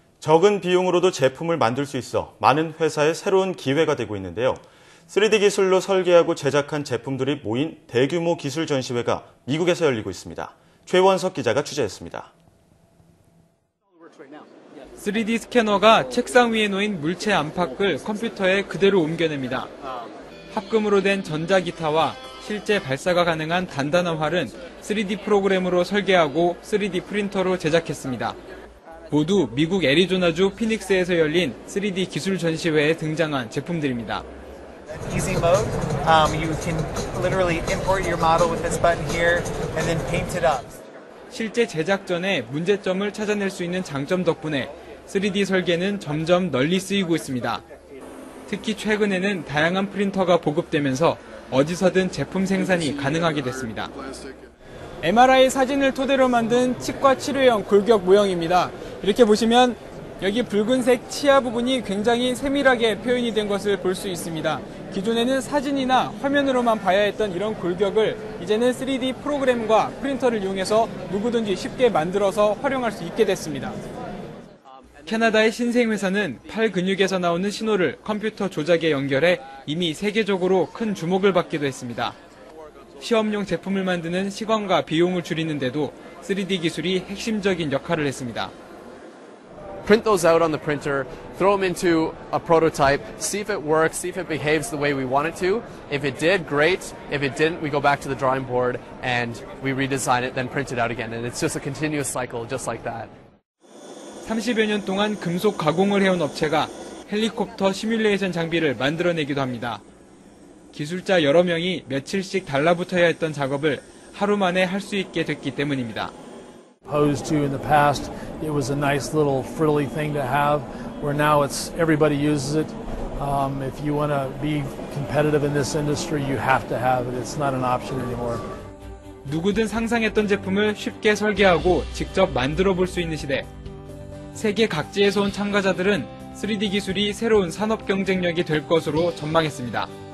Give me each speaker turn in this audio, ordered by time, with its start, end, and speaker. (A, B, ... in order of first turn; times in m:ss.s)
0:00.2-0:12.3 A
0:15.0-0:19.7 B
0:20.5-0:28.4 B
0:29.1-0:34.2 B
0:34.9-0:40.7 C
0:41.3-0:47.6 B
0:48.5-0:53.9 B
0:55.0-1:13.8 B
1:15.0-1:22.2 B
1:23.0-1:28.5 B
1:29.8-1:43.1 D
1:44.2-1:49.8 B
1:50.7-1:56.1 B
1:56.8-2:08.4 E
2:09.2-2:13.5 B
2:14.3-2:19.9 B